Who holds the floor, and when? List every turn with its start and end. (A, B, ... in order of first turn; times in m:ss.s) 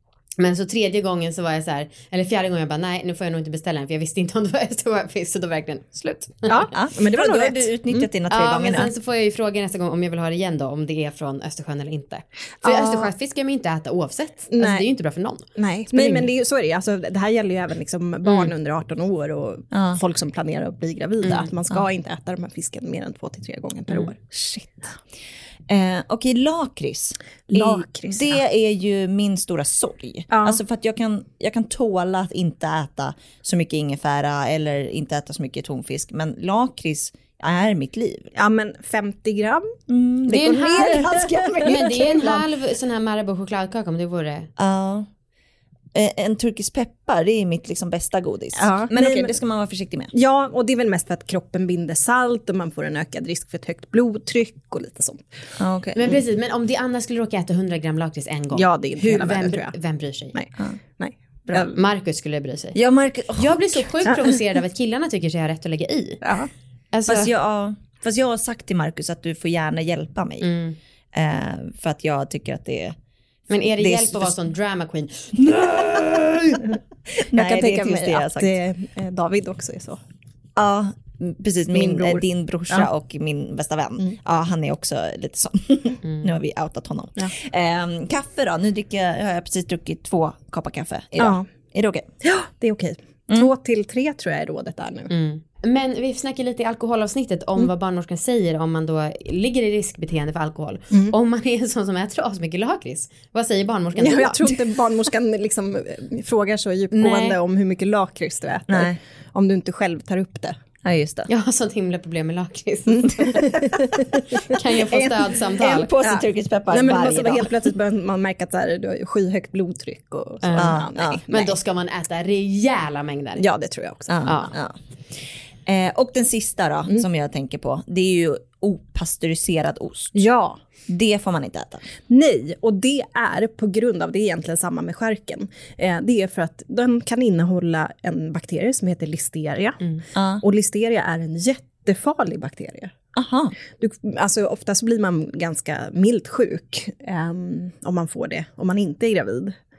0:00.4-0:06.7 A
0:06.5-0:08.1 B
0:06.7-0:08.9 C
0:08.3-0:16.3 A
0:12.6-0:13.1 B
0:14.5-0:14.9 B
0:15.6-0:25.0 B
0:19.7-0:20.0 C
0:25.7-0:38.3 C
0:27.5-0:28.4 B
0:30.3-0:30.6 B
0:38.4-0:39.7 B
0:39.9-0:42.4 C
0:40.3-0:44.5 A
0:40.4-0:41.9 B
0:44.6-0:45.1 C
0:45.9-0:50.1 C
0:48.6-0:49.3 B
0:50.1-0:55.2 B
0:55.6-0:56.2 C
0:56.0-1:00.4 A
0:58.5-0:59.7 B
1:00.3-1:01.7 B
1:01.6-1:02.8 A
1:02.8-1:03.9 C
1:03.4-1:06.2 A
1:06.2-1:06.5 B
1:06.9-1:07.3 A
1:07.1-1:10.5 C
1:10.4-1:10.8 A
1:11.1-1:13.0 C
1:13.5-1:16.1 A
1:13.8-1:14.4 C
1:15.4-1:16.6 C
1:17.2-1:18.6 C
1:17.3-1:20.0 B
1:20.6-1:32.1 C
1:21.7-1:22.9 B
1:31.2-1:31.5 B
1:32.2-1:35.1 B
1:35.1-1:44.6 A
1:44.0-1:50.6 B
1:46.9-1:47.4 A
1:48.7-1:49.0 C
1:50.8-1:51.3 C
1:51.3-1:53.6 A
1:52.9-1:54.2 B
1:53.5-1:54.2 C
1:54.3-1:55.9 A
1:54.7-1:57.7 C
1:56.0-2:01.5 B
2:00.4-2:03.4 A
2:00.6-2:01.2 C
2:03.4-2:04.3 B
2:04.1-2:04.8 C
2:04.2-2:04.5 A
2:05.7-2:10.2 C
2:10.2-2:10.6 B
2:10.9-2:11.9 C
2:12.1-2:19.8 B
2:20.2-2:20.4 C
2:20.4-2:22.9 B
2:23.2-2:23.5 C
2:23.8-2:29.6 B